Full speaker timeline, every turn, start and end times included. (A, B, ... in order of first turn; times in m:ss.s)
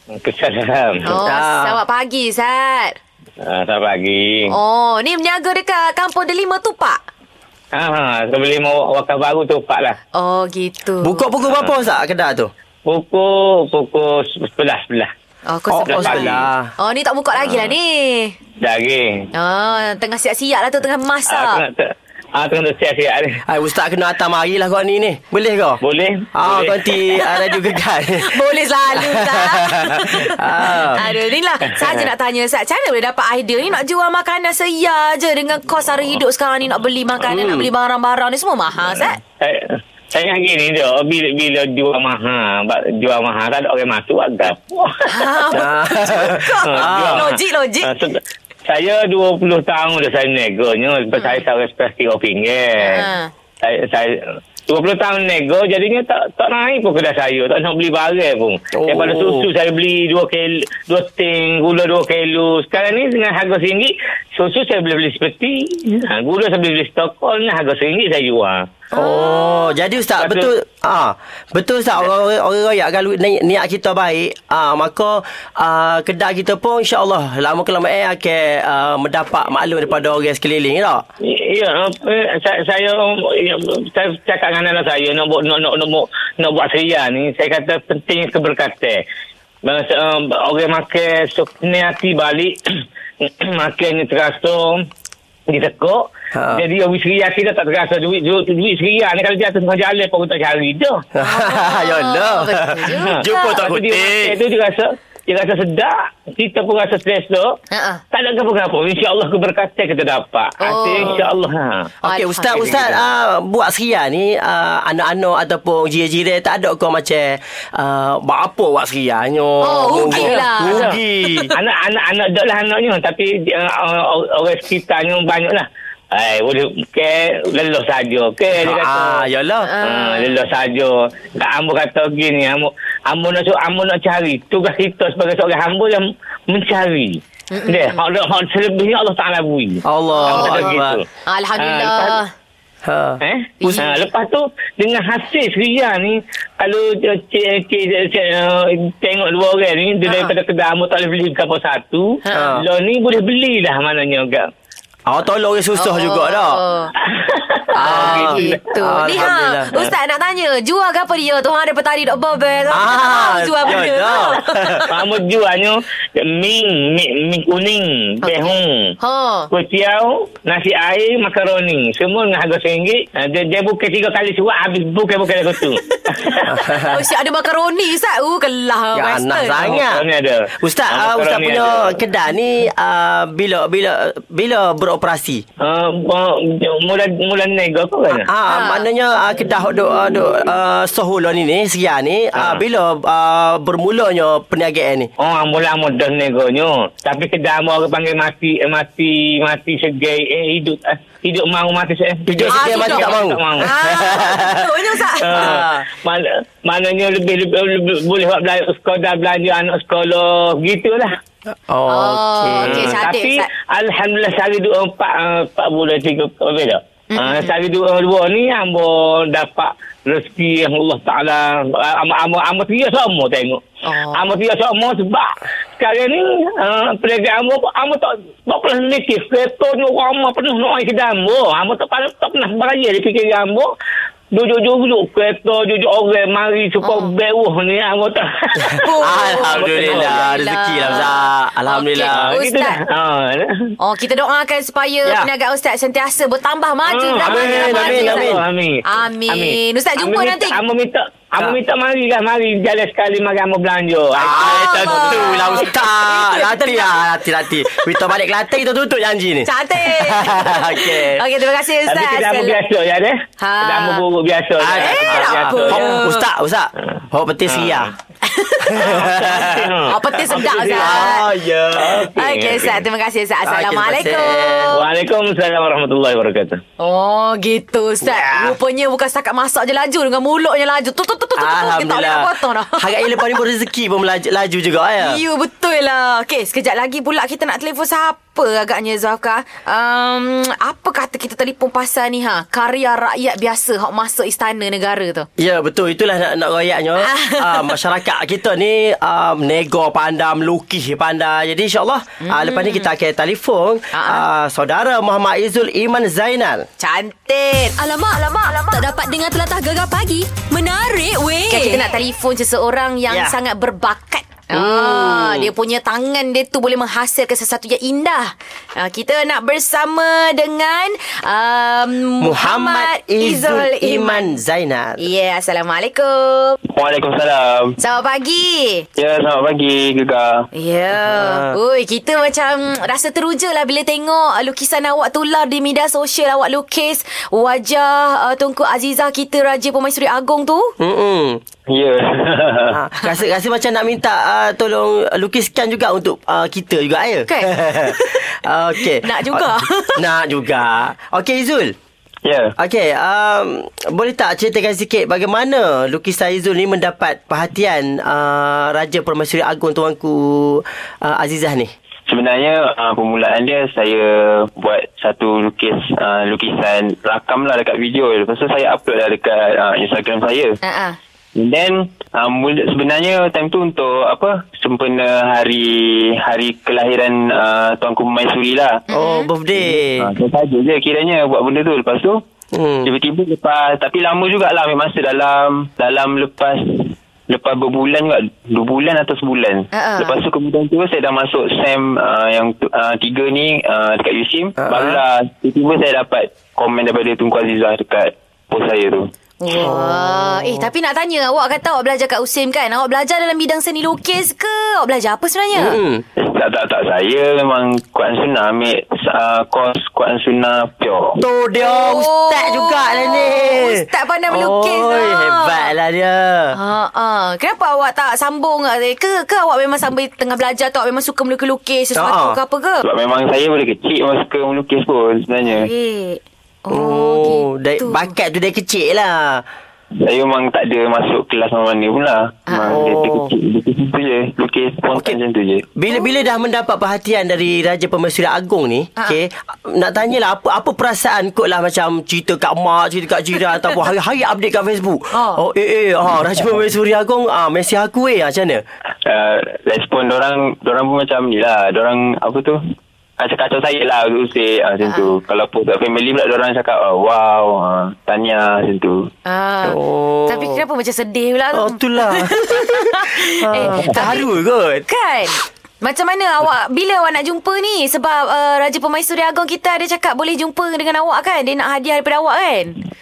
0:00.1-0:01.1 A
0:01.1-0:03.0 B
0:01.1-0:01.8 C
0:03.4-0:04.5 A
0:04.5-0:07.0 B
0:07.7-0:10.0 A
0:10.2-0:11.2 B
0:11.0-0:12.5 C
0:12.9-0:15.1 A
0:15.5-0:18.3 B
0:15.7-0:16.7 C
0:15.9-0:16.5 A
0:18.6-0:19.3 A
0:19.3-0:21.6 B
0:21.3-0:23.4 A
0:23.5-0:25.8 C
0:25.8-0:26.9 A
0:26.3-0:31.0 C
0:27.2-0:27.6 B
0:28.2-0:39.2 B
0:37.3-0:37.7 C
0:39.4-0:45.1 A
0:45.1-0:47.9 B
0:45.5-0:47.3 C
0:46.7-0:53.1 A
0:51.2-0:51.4 B
0:52.8-0:53.3 B
0:53.6-1:08.7 A
0:58.7-0:59.5 C
1:08.9-1:09.7 B
1:09.0-1:21.0 C
1:10.2-1:10.5 A
1:21.2-1:29.0 A
1:29.6-1:32.6 A
1:33.2-1:34.9 A
1:35.5-1:41.0 A
1:36.3-1:36.6 C
1:41.2-1:44.4 C
1:41.2-1:43.6 B
1:43.1-1:47.6 A
1:47.7-1:48.0 B
1:48.1-1:51.9 A
1:50.6-1:51.2 B
1:52.0-2:01.5 C
1:52.0-1:52.9 B
1:59.6-2:01.6 B
2:00.0-2:01.0 A
2:01.5-2:09.2 A
2:08.5-2:09.7 C
2:09.6-2:10.4 B
2:09.8-2:21.0 A
2:17.5-2:18.0 B
2:19.8-2:21.0 C
2:20.1-2:20.7 B
2:21.3-2:22.3 B
2:21.6-2:22.2 A
2:22.8-2:23.9 C
2:23.2-2:34.5 A
2:23.6-2:24.1 B
2:30.1-2:30.3 B
2:32.2-2:32.5 B
2:32.3-2:32.7 C
2:35.1-2:36.6 C
2:35.8-2:36.9 B
2:37.0-2:38.7 A
2:37.8-2:44.9 B
2:37.8-2:39.9 C
2:42.7-2:44.8 C
2:44.9-2:49.0 A
2:48.2-2:49.5 B
2:49.5-2:56.4 A
2:55.9-2:59.7 B
2:56.5-2:57.0 C
2:58.9-3:00.0 C
2:59.6-3:02.0 A
3:00.6-3:05.4 C
3:05.6-3:08.3 A
3:08.1-3:15.1 C
3:08.5-3:08.8 B
3:15.2-3:23.7 A
3:22.3-3:24.7 C
3:22.5-3:25.5 B
3:25.2-3:31.2 A
3:25.3-3:25.9 C
3:31.7-3:33.0 C
3:31.9-3:33.5 B
3:32.6-3:43.6 A
3:37.1-3:37.5 B
3:43.8-3:44.3 B
3:44.1-3:53.7 A
3:54.3-4:00.3 A
3:56.8-3:57.1 B
3:58.7-4:02.4 C
3:58.8-4:02.8 B
4:02.1-4:03.7 A
4:03.8-4:08.4 B
4:05.0-4:05.3 C
4:06.9-4:15.5 A
4:07.2-4:08.4 C
4:08.9-4:10.6 B
4:14.2-4:21.2 C
4:14.3-4:17.0 B
4:19.5-4:22.6 B
4:21.9-4:26.0 A
4:23.4-4:24.0 B
4:24.6-4:27.9 C
4:24.7-4:26.2 B
4:27.5-4:27.9 A
4:28.2-4:29.1 B
4:28.7-4:32.1 C
4:28.9-4:31.1 A
4:29.9-4:31.2 B
4:31.8-4:32.8 A
4:32.2-4:34.8 B
4:33.4-4:34.8 C
4:34.7-4:36.6 A
4:36.8-4:43.4 B
4:38.0-4:38.6 C
4:41.4-4:45.2 C
4:45.0-4:55.3 B
4:55.4-5:06.6 C
4:57.0-4:57.8 B
5:02.2-5:02.9 B
5:03.9-5:04.2 B
5:06.8-5:08.8 B
5:08.7-5:11.7 D
5:10.6-5:11.7 E
5:11.5-5:24.3 B
5:13.1-5:13.4 C
5:14.5-5:15.5 C
5:22.2-5:25.0 C
5:25.0-5:26.6 B
5:26.7-5:27.8 E
5:27.8-5:28.9 B
5:29.0-5:30.5 E
5:30.5-5:40.7 B
5:31.1-5:31.6 C
5:40.8-5:41.4 C
5:41.7-5:42.8 E
5:42.7-5:49.4 C
5:47.3-5:48.2 B
5:48.8-5:50.0 B
5:50.0-5:51.8 C
5:52.2-5:52.5 E
5:52.6-6:01.7 C
6:02.1-6:10.6 E
6:10.6-6:11.0 B
6:11.4-6:18.8 E
6:18.9-6:19.3 B
6:18.9-6:20.1 C
6:19.6-6:22.2 E
6:22.5-6:22.9 C
6:22.8-6:39.1 E
6:29.7-6:30.2 B
6:34.6-6:35.0 C
6:39.4-6:45.8 B
6:39.6-6:40.7 C
6:45.5-6:46.0 C
6:46.2-6:51.2 E
6:51.2-6:56.6 C
6:51.6-6:55.7 B
6:56.5-7:02.8 B
7:02.0-7:02.4 C
7:02.8-7:05.7 E
7:05.5-7:08.1 B
7:06.7-7:09.4 C
7:10.0-7:15.7 E
7:12.5-7:12.8 B
7:12.7-7:13.3 C
7:15.8-7:28.6 C
7:25.1-7:25.4 B
7:29.0-7:32.6 E
7:33.2-7:39.1 E
7:34.8-7:35.1 B
7:39.3-7:44.3 B
7:39.6-7:40.6 C
7:41.5-7:44.8 C
7:44.9-7:52.8 B